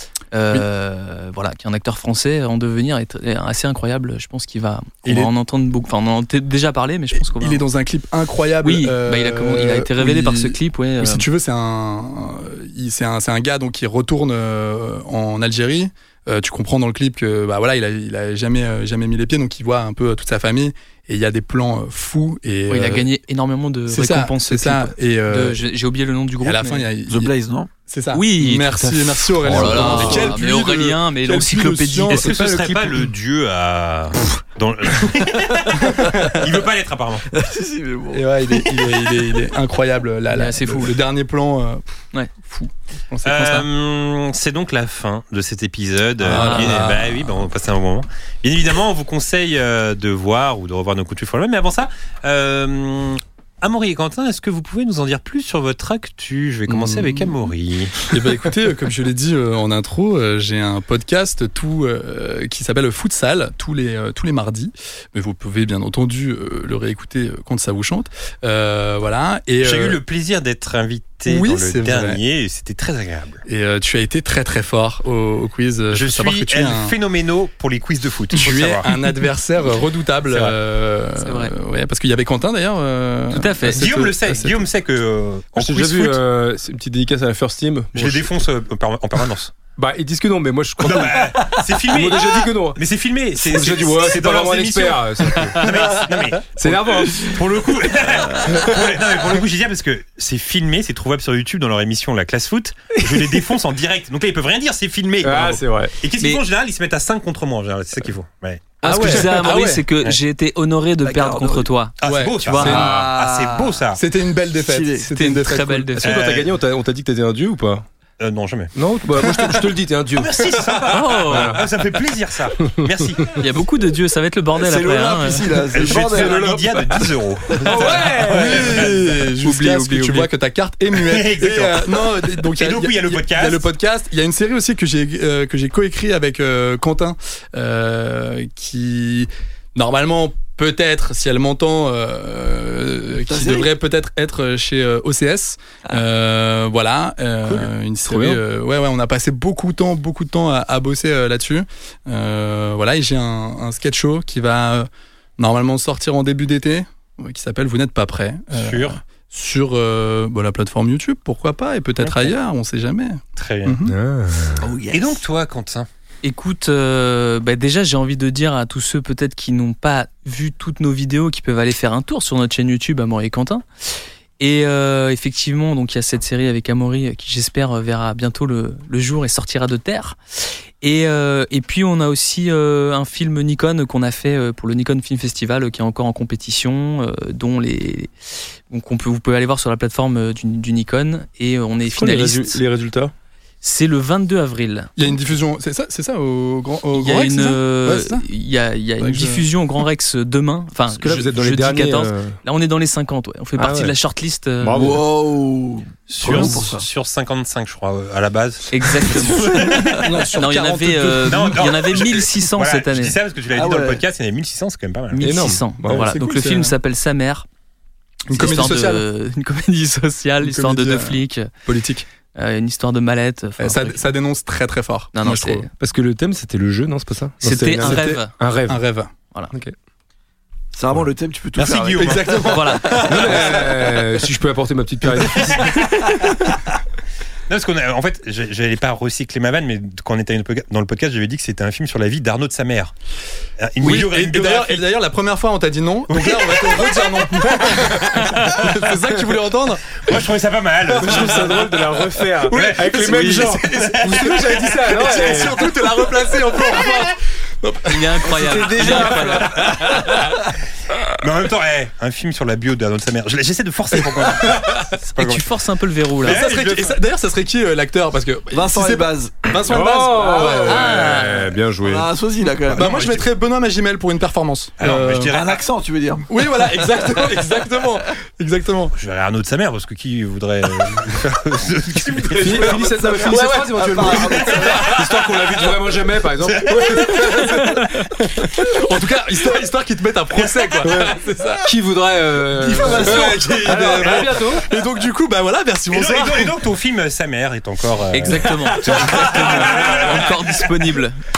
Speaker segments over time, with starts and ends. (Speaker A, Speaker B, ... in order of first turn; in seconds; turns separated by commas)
Speaker A: 0.3-7.6, Speaker B: 7.2-23.1, Speaker A: 8.6-11.3, Speaker A: 22.7-26.9, Speaker B: 23.9-25.6, Speaker B: 26.4-27.3, Speaker C: 27.1-27.7, Speaker B: 27.9-32.4, Speaker A: 28.1-32.3, Speaker D: 29.5-29.9, Speaker C: 29.5-30.1, Speaker E: 32.1-37.3, Speaker B: 35.8-36.4, Speaker C: 37.3-38.7, Speaker B: 38.1-43.7, Speaker A: 40.3-41.0, Speaker E: 43.2-58.1, Speaker B: 46.2-47.5, Speaker A: 46.3-46.9, Speaker B: 56.7-57.4, Speaker B: 58.0-70.0, Speaker E: 69.6-73.4, Speaker B: 71.3-72.2, Speaker B: 73.5-76.9, Speaker E: 75.9-78.9, Speaker B: 78.3-84.6, Speaker E: 80.3-80.5, Speaker A: 81.2-81.5, Speaker A: 83.3-83.9, Speaker E: 83.7-86.2, Speaker D: 85.6-88.3, Speaker E: 88.0-89.5, Speaker D: 89.8-92.8, Speaker E: 90.8-109.3, Speaker D: 93.3-97.4, Speaker D: 98.3-98.8, Speaker D: 105.2-105.9, Speaker A: 108.8-112.0, Speaker B: 108.8-109.8, Speaker C: 111.0-111.7, Speaker E: 112.0-114.0, Speaker B: 112.0-113.0, Speaker A: 112.5-112.8, Speaker C: 112.7-113.8, Speaker B: 114.0-116.1, Speaker C: 114.5-115.0, Speaker A: 115.1-116.2, Speaker E: 116.0-116.5, Speaker D: 116.0-117.9, Speaker E: 118.2-118.7, Speaker D: 118.8-121.7, Speaker E: 120.1-123.3, Speaker A: 120.9-121.6, Speaker A: 123.4-125.5, Speaker C: 124.6-126.6, Speaker E: 125.7-128.9, Speaker D: 125.8-128.9, Speaker B: 128.2-163.9, Speaker A: 129.4-130.3, Speaker E: 130.9-133.7, Speaker C: 143.3-143.7, Speaker D: 148.1-148.4, Speaker E: 158.5-159.0, Speaker E: 162.0-162.3, Speaker E: 163.4-163.8, Speaker D: 163.8-164.6, Speaker C: 164.6-165.2, Speaker E: 164.9-165.9, Speaker A: 166.2-173.6, Speaker A: 174.4-180.2, Speaker A: 180.8-188.1, Speaker A: 188.7-192.6, Speaker D: 191.9-193.1, Speaker A: 193.6-194.9, Speaker B: 195.0-198.2, Speaker A: 196.9-205.0, Speaker B: 199.0-199.4, Speaker D: 200.9-202.4, Speaker D: 203.6-204.0, Speaker D: 204.6-205.0, Speaker C: 204.8-206.8, Speaker E: 206.1-210.3, Speaker A: 208.7-209.7, Speaker C: 209.2-209.9, Speaker B: 209.6-211.7, Speaker A: 210.3-213.2, Speaker E: 211.3-215.3, Speaker C: 213.5-214.0, Speaker A: 215.1-217.5, Speaker D: 215.2-216.1, Speaker B: 215.8-216.8, Speaker B: 218.3-219.0, Speaker A: 218.3-221.5, Speaker B: 220.4-222.1, Speaker A: 222.3-224.1, Speaker B: 223.6-225.7, Speaker A: 225.1-225.7, Speaker D: 225.8-228.8, Speaker A: 227.4-228.3, Speaker B: 227.8-229.1, Speaker C: 230.7-232.3, Speaker E: 231.6-233.6, Speaker B: 232.0-233.9, Speaker A: 232.4-233.1, Speaker D: 233.0-236.1, Speaker E: 235.4-236.4, Speaker E: 237.5-242.9, Speaker E: 243.6-244.9, Speaker B: 243.8-250.2, Speaker E: 246.1-248.7, Speaker E: 250.0-251.7, Speaker D: 250.9-255.9, Speaker B: 251.0-260.3, Speaker E: 252.5-253.0, Speaker A: 253.0-253.6, Speaker E: 253.6-254.7, Speaker A: 257.9-259.6, Speaker D: 258.2-260.3, Speaker E: 259.5-260.2, Speaker E: 261.2-265.5, Speaker B: 263.9-264.9, Speaker A: 265.2-266.4, Speaker E: 266.2-267.0, Speaker B: 266.2-271.1, Speaker C: 268.5-270.8, Speaker D: 269.6-272.1, Speaker A: 270.7-271.5, Speaker C: 271.8-272.9, Speaker B: 272.7-275.3, Speaker E: 272.8-273.2, Speaker E: 274.8-275.6, Speaker C: 275.3-276.3, Speaker B: 276.3-278.9, Speaker E: 279.0-283.1, Speaker D: 282.3-287.6, Speaker B: 282.4-285.0, Speaker C: 283.5-284.7, Speaker E: 286.4-287.3, Speaker B: 286.7-287.8, Speaker B: 288.4-291.7, Speaker E: 290.4-290.9, Speaker D: 290.8-294.7, Speaker C: 292.6-294.0, Speaker B: 292.7-296.5, Speaker E: 295.9-300.5, Speaker A: 298.1-301.2, Speaker B: 298.8-300.2, Speaker D: 298.9-299.3